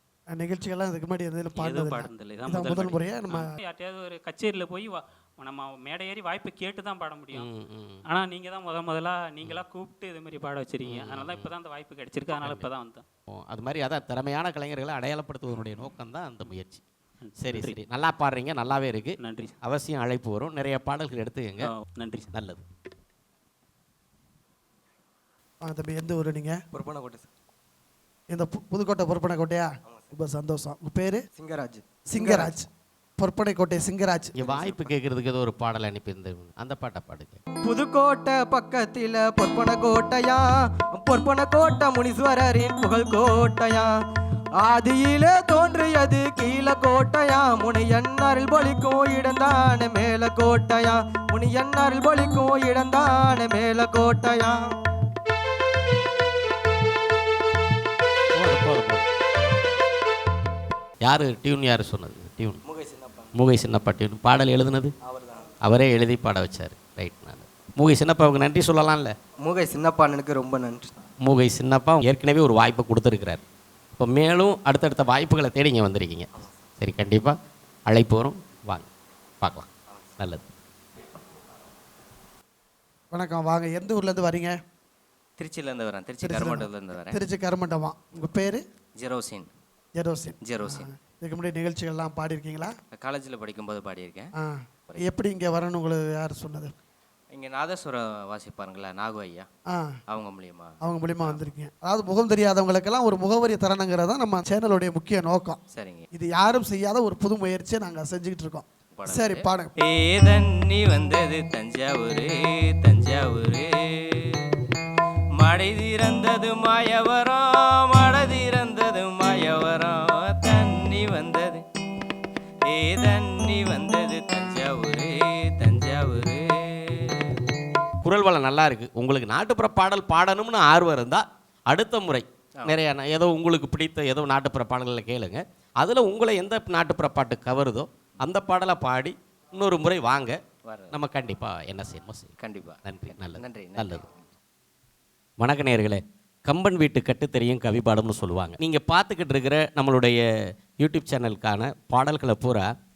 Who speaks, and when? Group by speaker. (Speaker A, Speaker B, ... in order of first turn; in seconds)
Speaker A: 0.3-3.5, 25.6-26.6, 28.3-31.2, 32.1-32.7, 33.2-34.8, 83.1-84.6, 86.2-88.6, 90.0-92.7, 94.4-96.7, 100.8-105.6, 106.1-109.7
Speaker B: 1.6-7.5, 8.1-13.1, 17.2-17.8, 19.2-19.5, 21.6-22.3
Speaker C: 7.3-8.0, 10.8-11.5, 12.3-12.7, 13.3-16.8, 17.4-21.7, 22.3-22.6, 34.4-37.4, 58.3-59.1, 61.0-62.6, 63.4-64.9, 65.6-69.2, 71.2-73.4, 74.0-76.3, 76.8-77.3, 77.9-78.9, 79.4-79.7, 80.2-80.5, 128.0-140.4, 140.9-142.3, 142.8-144.0, 145.4-150.2, 150.8-152.7
Speaker D: 26.7-27.3, 31.4-32.5, 37.6-43.9, 44.6-54.6, 62.7-63.2, 69.4-71.0
Speaker E: 85.4-87.2, 89.0-89.5, 90.4-90.9, 92.9-94.3, 94.9-95.2, 97.3-99.5, 100.1-101.5, 105.7-106.1, 109.0-113.7, 115.4-121.6, 122.7-126.5, 140.6-141.0, 142.4-144.1